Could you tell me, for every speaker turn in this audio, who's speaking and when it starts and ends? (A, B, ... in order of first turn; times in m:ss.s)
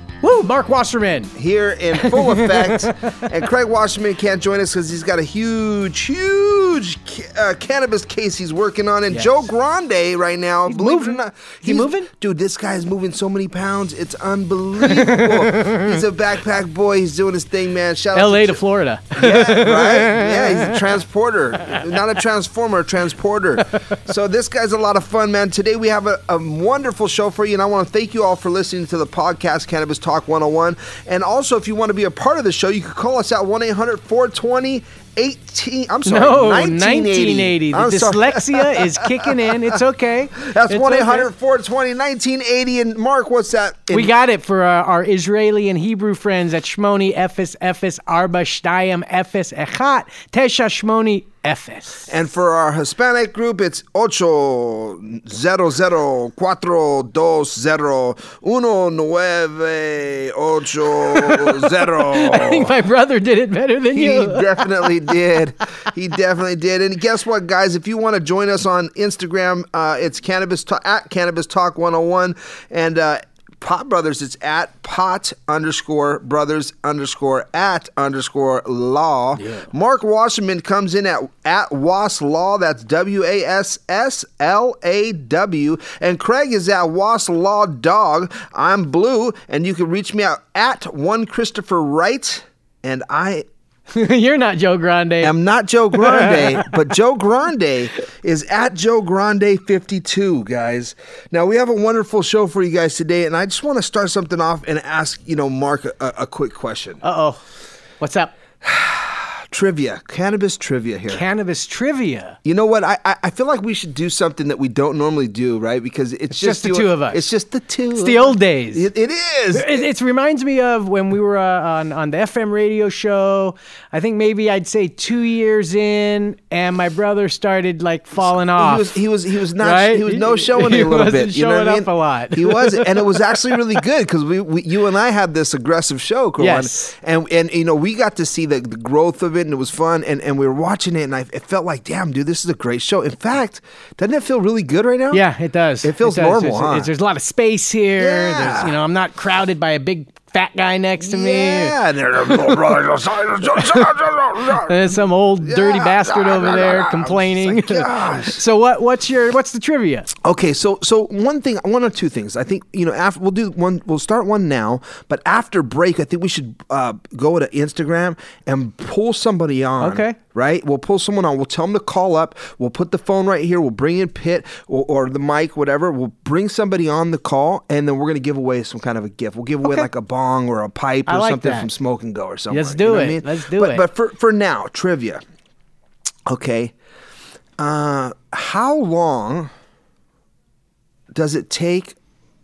0:00.2-0:01.3 A
0:01.4-0:18.6 B
0:02.0-0:03.1 A
0:09.1-0:09.4 A
0:10.7-0:12.1 A
0:14.8-0:15.9 A
0:18.1-0:20.8 A
0:19.2-0:39.0 B
0:36.0-0:41.3 A
0:40.4-0:44.1 B
0:43.9-0:52.1 A
0:52.1-1:02.7 B
1:01.2-1:01.5 A
1:02.0-1:04.9 A
1:03.9-1:33.4 B
1:19.4-1:19.7 A
1:33.9-1:35.3 A
1:35.2-1:47.0 B
1:35.9-1:36.6 A
1:47.0-1:47.4 A
1:48.0-1:48.3 A
1:48.6-1:51.2 B
1:51.1-1:52.4 A
1:52.4-1:59.8 B
1:56.3-1:57.2 A
1:58.0-1:58.8 A
1:59.5-2:09.0 A
2:08.6-2:25.2 B
2:09.6-2:13.6 A
2:16.4-2:16.9 A
2:25.1-2:31.7 A
2:25.8-2:26.9 B
2:28.0-2:28.8 B
2:31.0-2:38.4 B
2:34.6-2:40.1 A
2:40.2-3:05.2 B
2:49.8-2:50.2 A
2:59.6-2:59.9 A
3:01.1-3:01.7 A
3:02.5-3:03.8 A
3:06.3-3:06.7 B
3:07.6-3:09.5 B
3:11.1-3:11.9 B